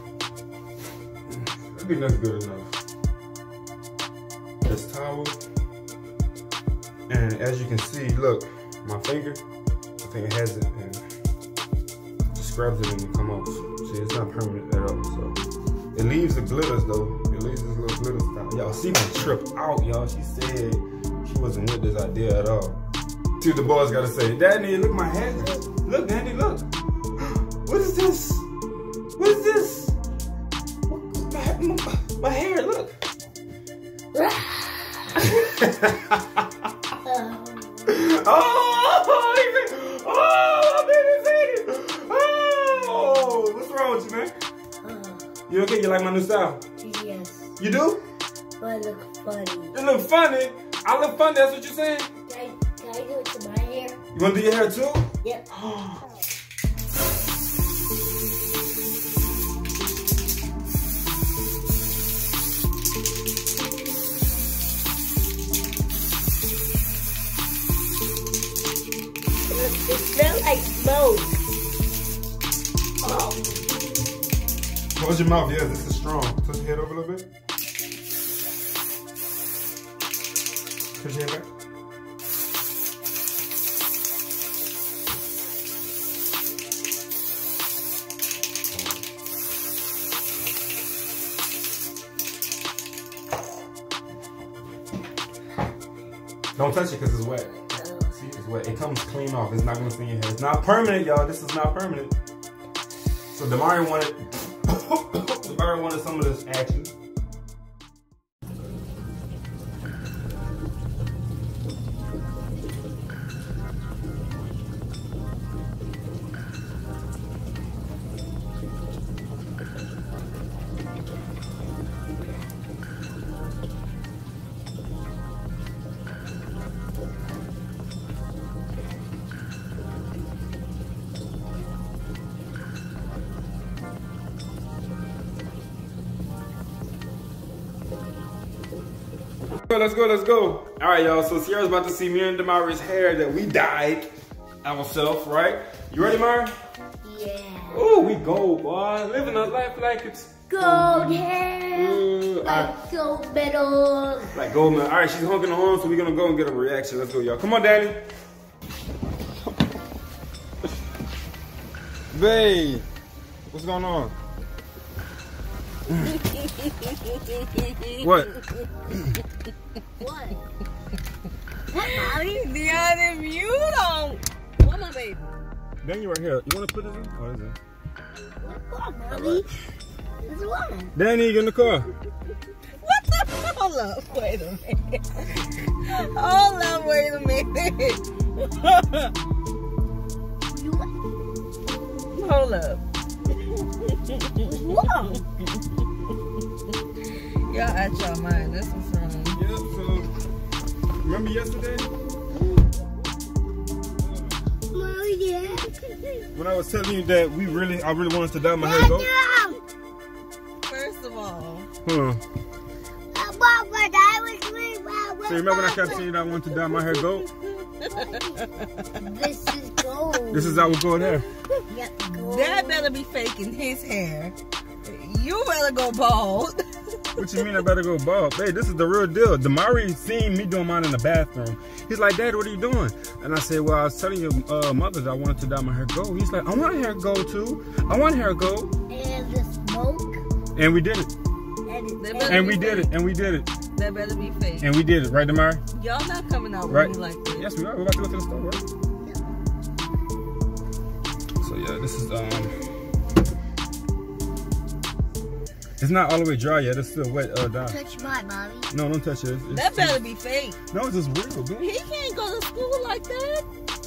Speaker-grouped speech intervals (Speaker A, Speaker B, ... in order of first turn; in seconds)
Speaker A: 1.3-2.8, 4.6-5.4, 7.1-9.4, 10.0-11.0, 12.3-15.4, 15.9-22.8, 23.4-26.7, 27.2-28.5, 29.2-29.9, 30.9-32.9, 35.2-36.4, 37.9-44.3, 45.5-46.6, 47.6-48.0, 49.7-52.1, 54.1-56.0, 75.0-77.3, 81.0-81.5, 96.5-102.1, 103.3-106.9, 139.7-144.1, 144.6-146.5, 147.7-152.7, 154.3-158.0, 162.1-162.9, 163.5-164.1, 165.9-166.1, 168.0-168.3, 175.8-177.6, 179.1-179.5, 180.9-181.9, 199.3-200.1, 201.0-201.9, 204.0-204.4, 206.3-209.1, 211.8-212.2, 215.2-217.2, 220.3-221.3, 227.2-238.7, 240.5-241.1, 242.3-243.5, 244.6-245.6, 246.7-248.6, 251.4-252.5, 255.8-257.8, 258.7-260.0, 260.7-261.7
Speaker B: 37.0-37.9, 44.8-45.2, 46.8-47.5, 48.6-49.8, 52.3-54.0, 69.5-71.3, 73.0-73.3, 147.0-147.8, 150.5-154.3, 170.0-170.4, 171.7-172.2, 178.2-179.4, 180.2-180.9, 190.5-190.8, 194.4-195.2, 204.7-206.3, 208.6-209.6, 213.1-216.0, 217.9-218.4, 219.0-220.7, 221.7-222.9, 238.9-240.2, 241.7-242.5, 257.6-258.7
Speaker C: 166.0-168.6, 171.8-175.3, 182.8-189.1, 192.1-192.8, 193.4-195.2, 197.5-199.4, 210.6-211.7, 216.7-219.0, 221.0-221.6, 222.2-227.4, 241.7-242.9, 243.7-244.7, 245.7-247.5, 259.5-260.6, 261.6-263.4